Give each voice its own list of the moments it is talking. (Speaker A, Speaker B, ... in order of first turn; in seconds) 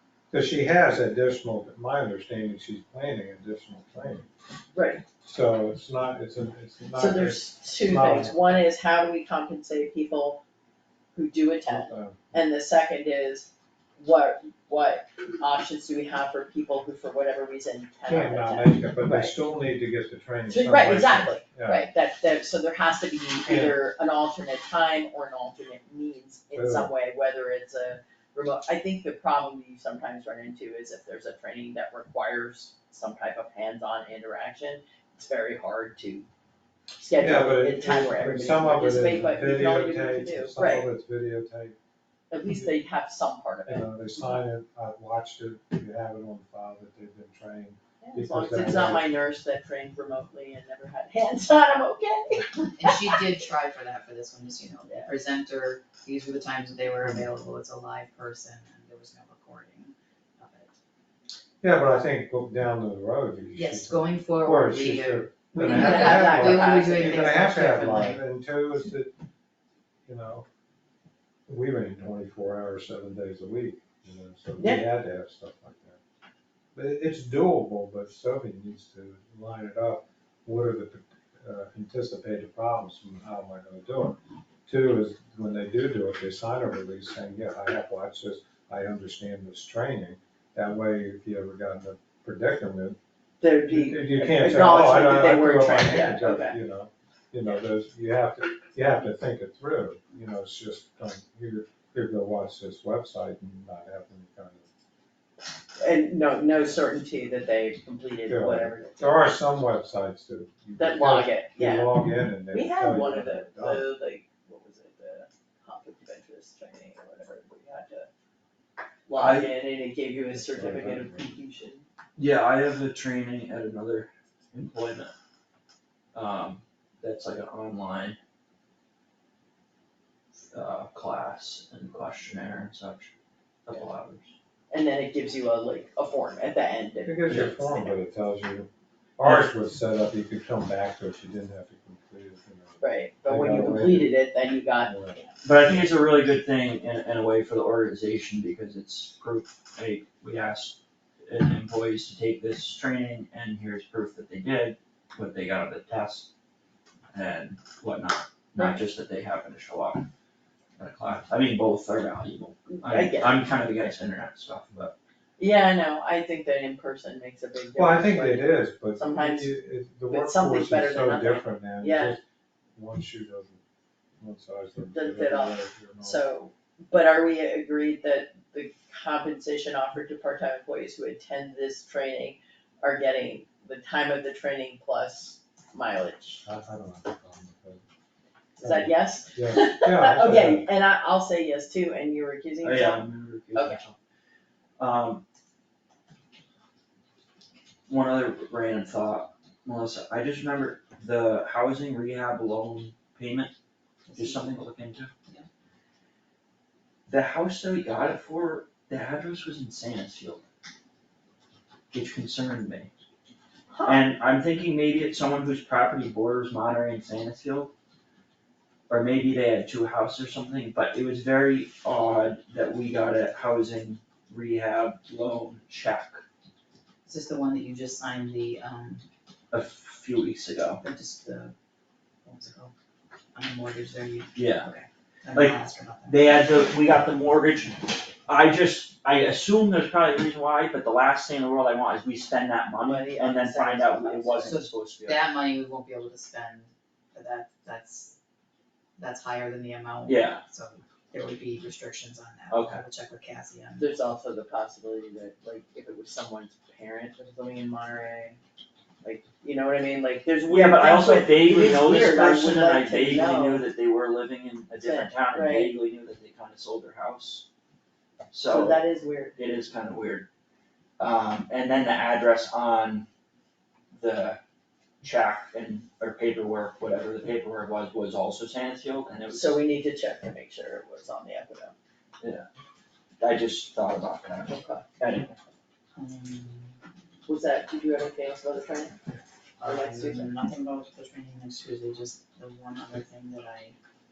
Speaker A: 0.3-4.3, 5.2-8.6, 11.7-12.2, 18.1-21.9, 23.4-23.8, 26.5-26.9, 37.2-41.8, 43.7-49.1, 61.6-69.1, 70.1-70.5, 71.5-76.0, 76.8-93.0, 93.7-104.7, 108.3-113.8, 120.3-121.3, 137.1-144.1, 144.8-145.2, 167.8-172.2, 172.8-173.6, 174.2-176.2, 186.4-187.8, 188.6-190.7
Speaker B: 4.7-5.0, 6.9-10.4, 11.1-19.4, 20.5-36.3, 37.0-40.9, 42.3-43.9, 48.0-53.2, 65.5-67.6, 74.6-74.8, 93.4-96.6, 105.8-109.3, 110.8-112.0, 112.5-118.1, 119.1-121.9, 134.7-137.9, 142.8-145.3, 158.6-158.8, 162.7-163.5, 165.4-169.5, 170.1-172.2, 174.9-186.4, 188.6-193.8, 213.7-214.1, 242.8-244.6, 253.8-258.4, 259.0-263.6, 264.8-265.8, 268.5-269.4, 279.3-281.7, 284.5-284.9, 287.3-289.0, 289.6-290.3
Speaker C: 52.8-60.8, 63.5-68.2, 204.1-204.6, 227.1-229.1, 230.8-231.5, 232.2-232.7, 233.3-236.4, 244.4-248.2, 249.0-253.9, 285.9-286.8, 289.6-293.8
Speaker D: 119.2-119.5, 122.2-125.1, 126.1-128.2, 130.3-133.1, 133.7-134.3, 145.4-156.3, 157.1-160.1, 160.8-164.9, 192.6-194.0, 194.8-195.2, 197.9-203.5, 204.2-205.1, 207.1-210.4, 211.9-212.9, 213.8-217.7, 218.9-226.2, 229.5-230.8, 234.3-234.7, 235.3-245.3, 250.1-250.4, 252.5-252.8, 260.5-267.5, 268.3-268.8, 269.4-270.3, 271.0-273.1, 273.9-274.4, 275.0-279.6, 282.2-282.5, 283.2-285.4